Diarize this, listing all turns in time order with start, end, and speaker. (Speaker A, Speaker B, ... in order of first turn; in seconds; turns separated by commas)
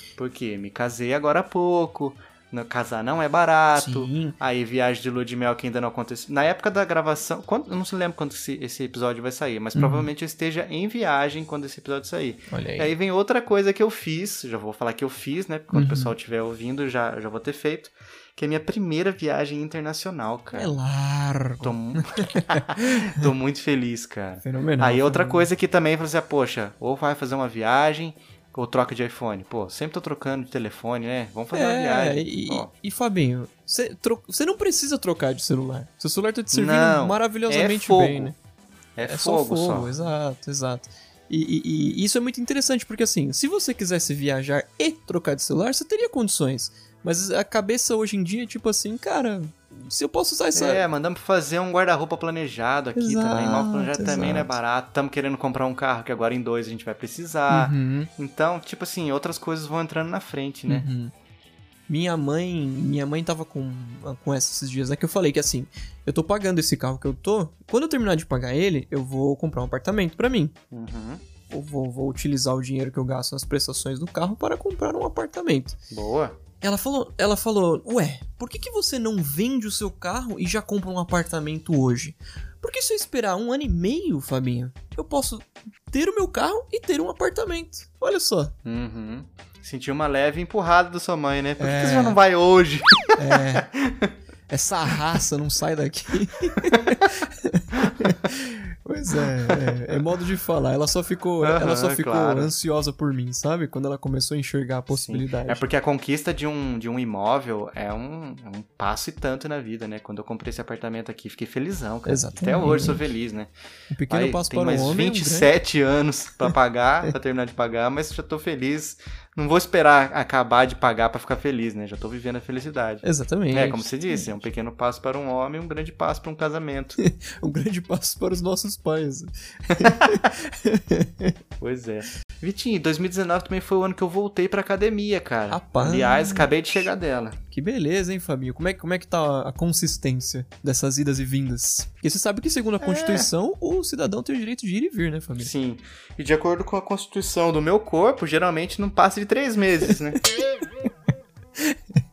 Speaker A: 0.2-20.8, Speaker B: 3.7-4.4, Speaker B: 9.7-10.1, Speaker B: 12.5-12.9, Speaker B: 15.7-16.1, Speaker B: 20.5-21.8, Speaker A: 21.6-32.7, Speaker B: 22.3-22.6, Speaker B: 24.4-25.5, Speaker B: 31.5-38.4, Speaker A: 36.5-38.3, Speaker A: 39.0-39.9, Speaker B: 39.0-50.8, Speaker A: 50.5-60.9, Speaker B: 52.9-54.5, Speaker B: 57.5-58.1, Speaker B: 60.7-61.1, Speaker B: 61.9-70.5, Speaker A: 70.7-71.2, Speaker B: 71.5-75.8, Speaker A: 75.9-76.4, Speaker B: 76.6-88.5, Speaker A: 88.6-94.1, Speaker B: 91.6-92.2, Speaker B: 93.2-93.7, Speaker B: 94.5-105.6, Speaker A: 101.4-102.5, Speaker A: 104.9-113.5, Speaker B: 112.0-113.0, Speaker B: 113.9-115.5, Speaker A: 114.1-127.0, Speaker B: 123.0-124.4, Speaker B: 127.0-131.3, Speaker A: 131.6-137.4, Speaker B: 135.5-136.8, Speaker B: 137.5-145.5, Speaker A: 142.8-143.3, Speaker A: 145.3-150.2